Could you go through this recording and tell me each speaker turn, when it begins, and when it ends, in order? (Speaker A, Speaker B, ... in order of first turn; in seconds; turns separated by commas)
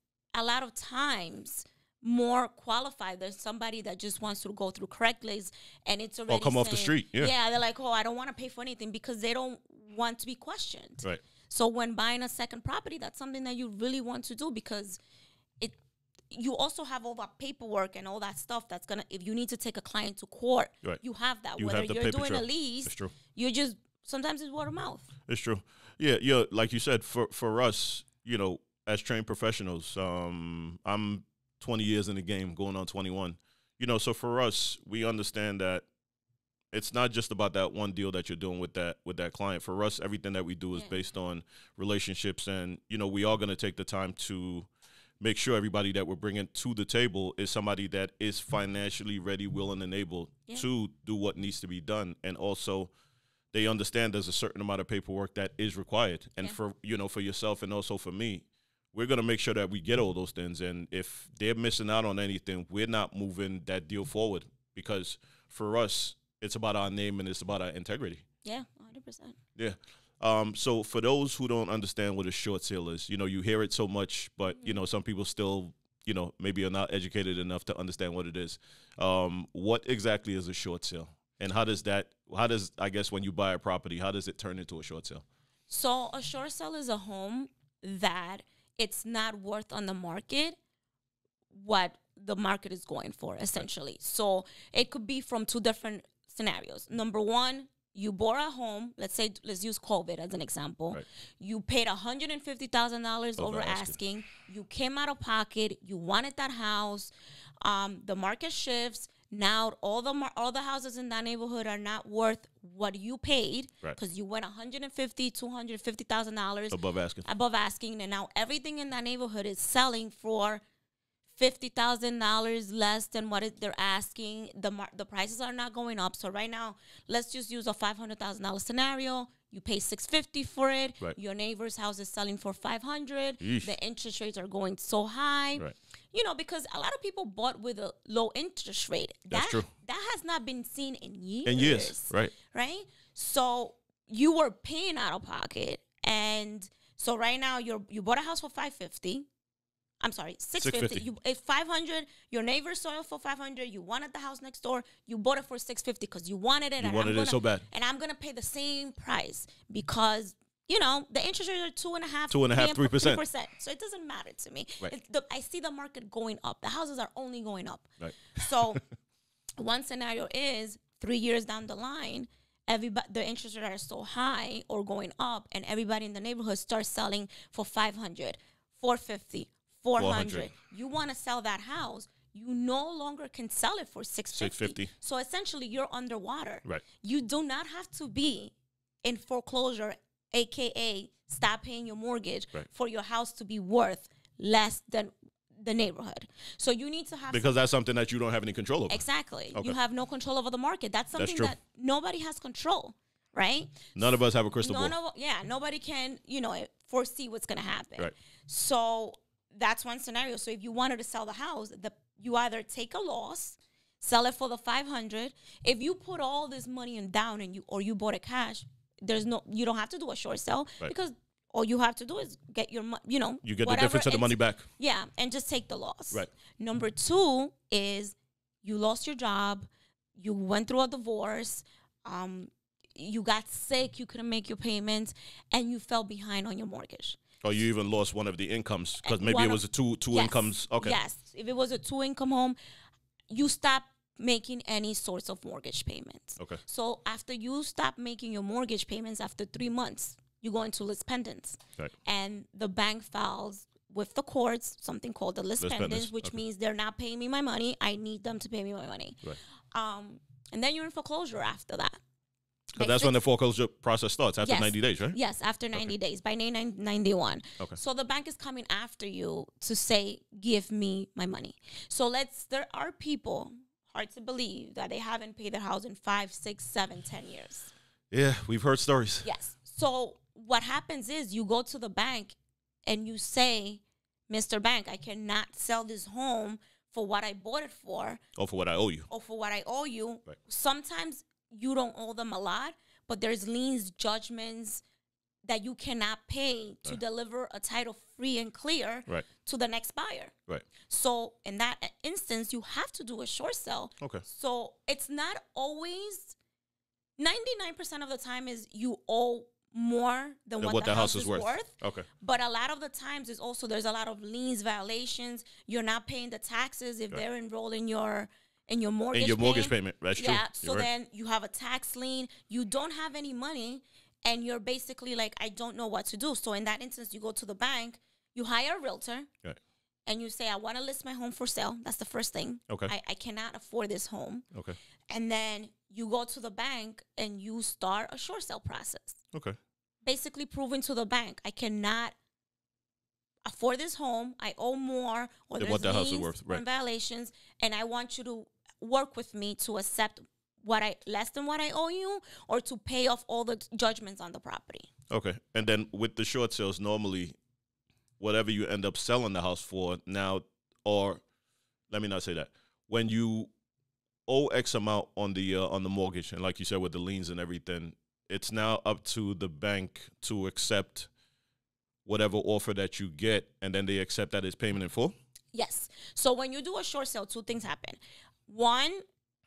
Speaker A: 0.3-15.0, Speaker B: 6.3-7.3, Speaker A: 16.3-25.1, Speaker B: 21.6-23.1, Speaker B: 25.3-35.9, Speaker B: 36.7-44.7, Speaker B: 45.2-52.9, Speaker B: 53.5-68.2, Speaker A: 68.4-69.4, Speaker B: 69.6-85.2, Speaker A: 85.7-90.6, Speaker A: 91.5-120.6, Speaker B: 103.4-104.0, Speaker B: 116.7-117.3, Speaker A: 121.3-149.3, Speaker B: 133.4-133.7, Speaker B: 139.3-139.7, Speaker B: 141.4-142.3, Speaker A: 150.0-168.8, Speaker B: 150.6-151.1, Speaker B: 156.8-157.7, Speaker B: 162.3-163.2, Speaker B: 168.0-168.8, Speaker A: 169.6-197.4, Speaker B: 180.0-180.5, Speaker B: 184.3-184.9, Speaker B: 197.3-199.0, Speaker A: 198.9-237.2, Speaker B: 201.2-201.5, Speaker B: 203.9-204.9, Speaker B: 223.4-224.7, Speaker B: 237.4-241.0, Speaker A: 239.0-242.6, Speaker A: 243.3-262.0, Speaker B: 255.6-256.4, Speaker B: 262.8-265.2, Speaker A: 262.8-263.2, Speaker A: 264.4-277.7, Speaker B: 278.1-279.3, Speaker A: 279.2-288.2, Speaker B: 288.4-289.1, Speaker A: 289.1-294.8, Speaker A: 295.4-300.3, Speaker A: 300.9-306.4, Speaker A: 307.2-329.3, Speaker B: 310.6-312.1, Speaker B: 319.1-320.9, Speaker A: 330.1-334.5, Speaker A: 335.1-339.2, Speaker A: 340.0-342.1, Speaker A: 343.4-354.9, Speaker B: 345.6-346.6, Speaker B: 355.1-357.4, Speaker B: 358.2-361.2, Speaker B: 361.9-363.5, Speaker B: 364.3-371.1, Speaker B: 372.1-375.1, Speaker A: 375.5-379.0